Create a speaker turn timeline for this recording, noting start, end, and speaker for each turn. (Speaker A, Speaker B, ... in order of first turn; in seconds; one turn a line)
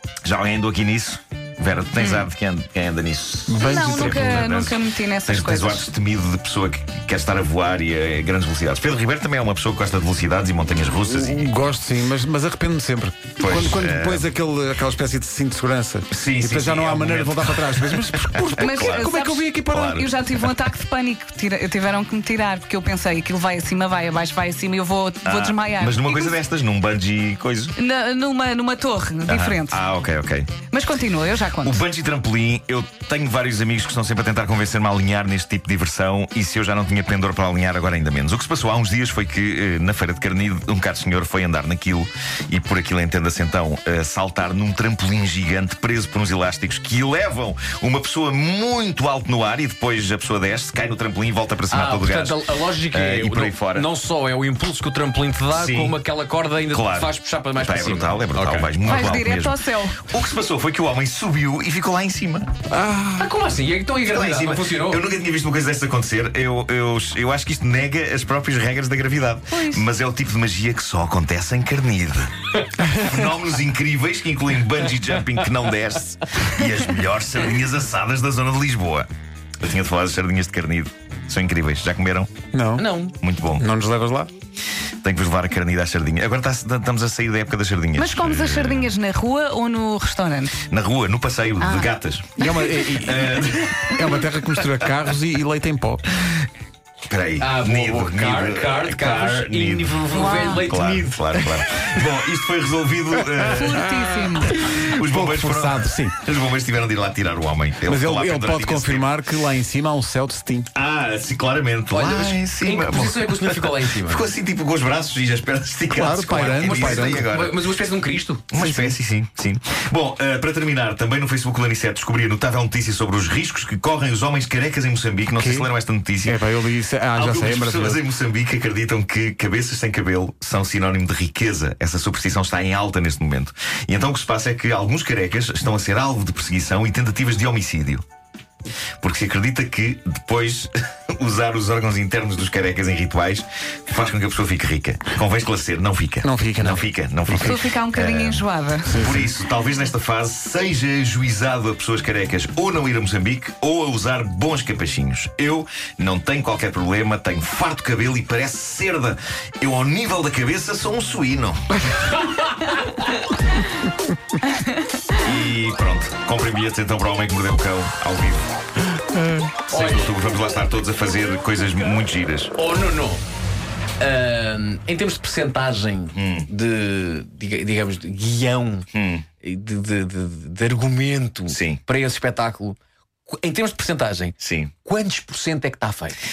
Speaker A: 0.2-11.6
Speaker B: 2.0-2.3
Speaker C: 3.5-4.5
Speaker B: 3.6-5.9
Speaker C: 11.1-19.9
Speaker A: 13.4-14.3
Speaker A: 16.1-20.1
Speaker B: 18.6-26.4
Speaker A: 25.2-27.8
Speaker B: 27.7-29.8
Speaker A: 29.2-30.6
Speaker B: 30.7-31.8
Speaker A: 31.6-53.9
Speaker D: 51.7-59.1
Speaker A: 55.5-56.0
Speaker A: 56.7-62.5
Speaker B: 58.8-60.0
Speaker C: 62.7-63.3
Speaker D: 63.1-65.0
Speaker A: 64.0-72.3
Speaker B: 69.5-69.8
Speaker C: 72.8-73.1
Speaker A: 72.9-79.1
Speaker A: 79.6-82.3
Speaker C: 82.5-82.8
Speaker D: 82.8-83.1
Speaker A: 83.2-83.7
Speaker C: 83.6-84.3
Speaker A: 85.0-88.9
Speaker B: 88.0-90.6
Speaker A: 90.6-94.7
Speaker B: 91.6-91.9
Speaker C: 92.4-96.1
Speaker A: 97.1-104.1
Speaker D: 97.4-101.2
Speaker B: 100.1-100.7
Speaker B: 103.5-104.7
Speaker C: 103.5-106.2
Speaker A: 104.7-109.2
Speaker C: 107.8-110.7
Speaker A: 110.7-117.6
Speaker D: 111.9-114.3
Speaker C: 115.9-117.3
Speaker D: 116.5-118.5
Speaker A: 118.5-126.5
Speaker C: 118.5-118.9
Speaker C: 125.3-125.7
Speaker C: 126.2-128.0
Speaker A: 127.2-138.0
Speaker A: 139.0-161.8
Speaker C: 146.2-147.5
Speaker B: 147.4-148.9
Speaker C: 148.8-149.3
Speaker D: 161.9-163.1
Speaker A: 165.2-168.5
Speaker A: 169.7-172.5
Speaker D: 169.7-170.1
Speaker D: 172.6-173.2
Speaker D: 174.0-178.8
Speaker A: 176.1-176.5
Speaker A: 178.9-179.2
Speaker D: 179.4-186.2
Speaker A: 181.5-181.8
Speaker A: 184.4-184.7